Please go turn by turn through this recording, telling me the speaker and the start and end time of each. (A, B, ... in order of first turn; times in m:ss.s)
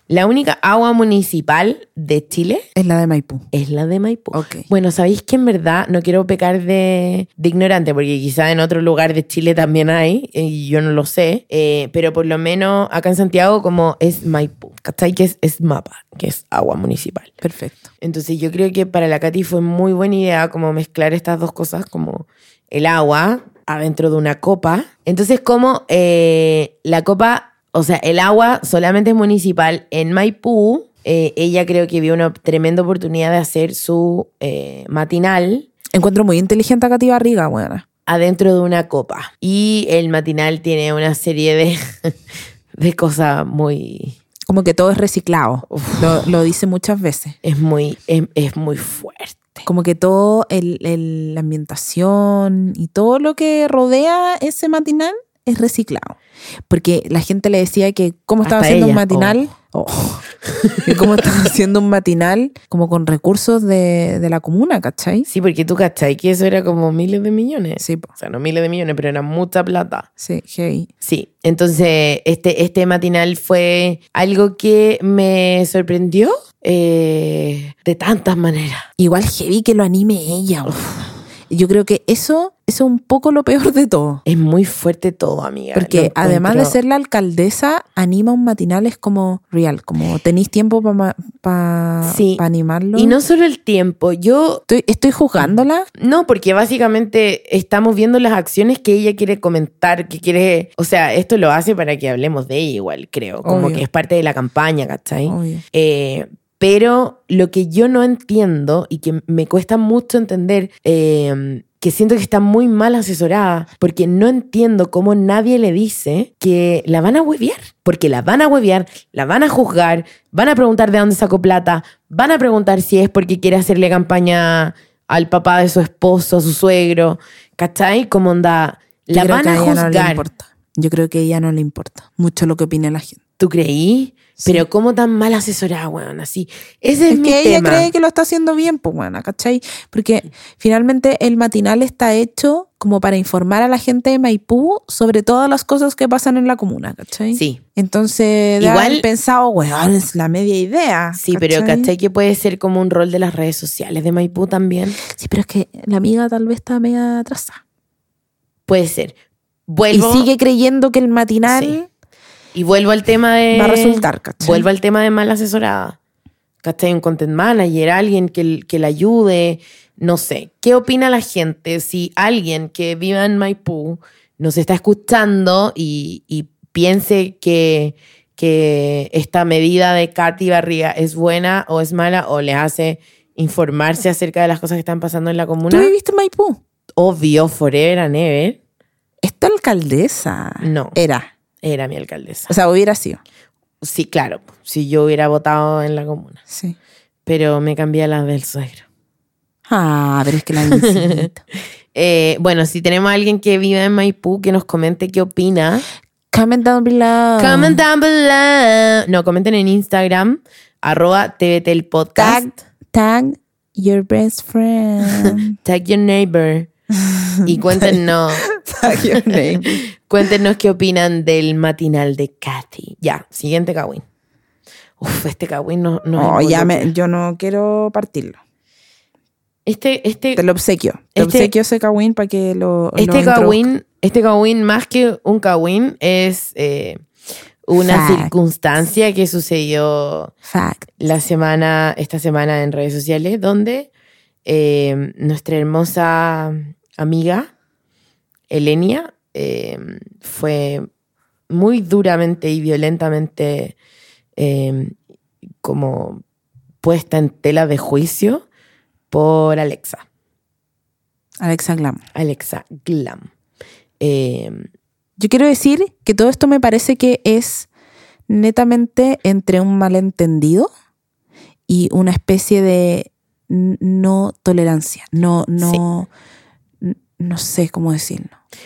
0:00.1-0:02.7 A
0:02.8-0:03.5 B
0:03.5-0:17.3 A
0:04.3-0:04.7 B
0:17.4-0:17.9 B
0:18.0-0:35.7 A
0:35.9-0:37.8 B
0:38.1-0:42.1 A
0:42.8-0:44.2 A
0:44.5-0:47.4 B
0:45.7-0:46.2 A
0:47.4-0:49.6 A
0:49.6-0:56.2 B
0:56.7-1:00.3 B
0:58.4-0:59.4 A
1:00.5-1:01.2 A
1:00.8-1:05.3 B
1:05.3-1:10.1 A
1:07.8-1:08.1 B
1:10.2-1:10.9 B
1:11.0-1:18.9 A
1:19.0-1:20.9 B
1:20.7-1:21.0 A
1:21.5-1:24.2 B
1:24.3-1:26.8 A
1:25.8-1:33.2 B
1:32.0-1:32.4 A
1:33.0-1:34.6 A
1:34.7-1:35.9 B
1:35.4-2:10.2 A
1:43.4-1:43.8 B
1:45.3-1:45.6 B
2:09.1-2:13.2 B
2:13.4-2:17.9 A
2:14.4-2:14.6 B
2:17.1-2:31.9 B
2:27.3-2:27.6 A
2:28.6-2:29.0 A
2:31.2-2:35.0 A
2:35.0-2:37.6 B
2:38.7-2:39.2 A
2:39.7-2:40.3 A
2:39.9-2:41.9 B
2:41.5-2:41.8 A
2:42.6-2:46.0 A
2:43.5-2:44.7 B
2:46.6-3:05.9 A
3:05.7-3:06.6 B
3:07.0-3:08.6 A
3:09.2-3:11.3 B
3:10.6-3:11.0 A
3:11.6-3:12.5 A
3:12.5-3:13.2 B
3:13.8-3:16.4 A
3:16.5-3:16.8 B
3:17.3-3:18.9 A
3:19.7-3:21.4 B
3:20.7-3:21.3 A
3:21.9-3:25.8 A
3:26.3-3:27.8 B
3:27.4-3:32.5 A
3:32.2-3:35.6 B
3:35.1-3:36.7 A
3:36.9-3:39.8 B
3:37.4-3:44.0 A
3:45.0-3:46.9 A
3:46.2-3:48.4 B
3:49.7-3:50.4 A
3:50.4-3:53.7 B
3:51.2-3:51.5 A
3:53.0-3:57.0 A
3:57.7-4:00.3 A
3:57.9-3:58.3 B
4:00.5-4:00.9 B
4:01.0-4:03.9 A
4:04.4-4:07.5 A
4:08.5-4:10.9 A
4:11.5-4:13.8 A
4:14.4-4:15.0 A
4:15.6-4:16.2 A
4:16.8-4:18.5 A
4:19.1-4:20.0 A
4:21.4-4:22.0 B
4:22.2-4:23.3 A
4:24.0-4:24.7 A
4:25.2-4:27.7 B
4:28.3-4:30.7 B
4:31.7-4:36.1 B
4:36.8-4:38.3 B